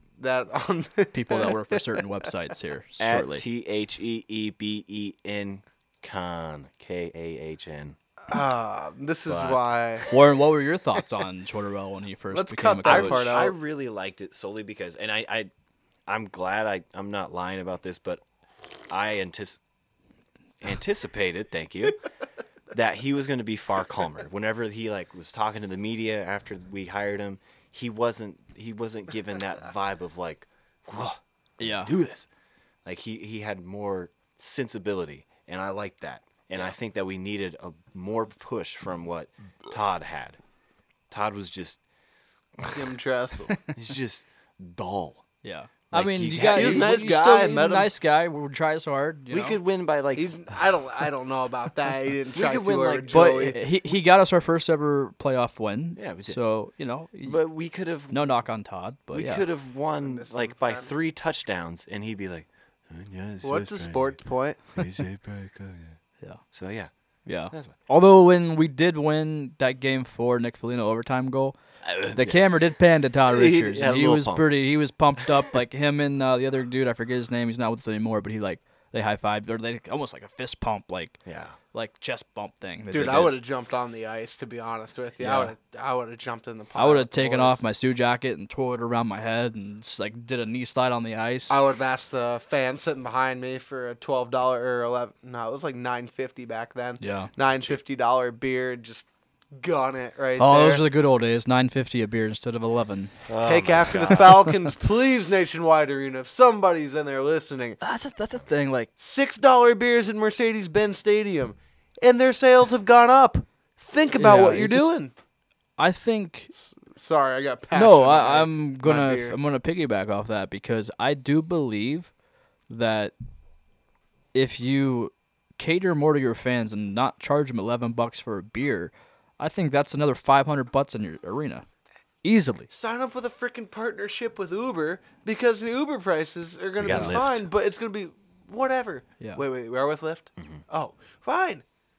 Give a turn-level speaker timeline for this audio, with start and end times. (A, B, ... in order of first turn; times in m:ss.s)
0:00.2-0:01.8 A
0:01.1-0:03.4 B
0:03.0-0:08.0 C
0:08.3-0:10.1 A
0:09.3-0:10.1 C
0:10.1-0:13.4 B
0:12.3-0:13.6 A
0:12.8-0:15.5 C
0:16.1-0:18.2 C
0:18.9-0:19.6 C
0:20.6-0:22.0 C
0:22.7-0:32.3 C
0:31.6-0:31.9 B
0:32.8-0:40.4 C
0:41.1-0:41.8 C
0:42.7-0:43.6 A
0:43.7-0:45.2 C
0:45.4-0:49.6 B
0:45.9-0:46.9 C
0:46.5-0:47.9 A
0:49.3-0:50.6 C
0:50.2-0:53.6 A
0:52.3-0:53.2 C
0:53.1-0:57.4 B
0:56.0-0:56.4 C
0:57.2-0:58.2 C
0:58.1-0:59.4 B
0:59.1-1:04.2 C
1:00.0-1:00.9 A
1:03.4-1:04.8 A
1:04.8-1:06.0 C
1:06.5-1:06.9 C
1:07.3-1:11.6 B
1:07.5-1:07.8 C
1:11.8-1:12.4 C
1:12.1-1:21.2 B
1:13.3-1:13.7 A
1:13.6-1:14.5 C
1:21.3-1:21.6 C
1:21.7-1:23.3 B
1:22.9-1:27.6 A
1:25.2-1:25.5 B
1:26.8-1:31.6 B
1:31.5-1:40.8 A
1:37.0-1:37.3 B
1:40.4-1:43.1 B
1:43.3-1:44.5 C
1:43.4-1:47.8 A
1:47.8-1:48.9 B
1:49.0-1:55.1 A
1:54.2-1:55.0 B
1:55.8-1:56.5 B
1:56.9-1:59.4 A
1:57.7-2:02.1 B
2:02.7-2:03.1 B
2:04.3-2:11.7 B
2:12.2-2:12.7 B
2:12.7-2:21.6 A
2:16.8-2:17.5 C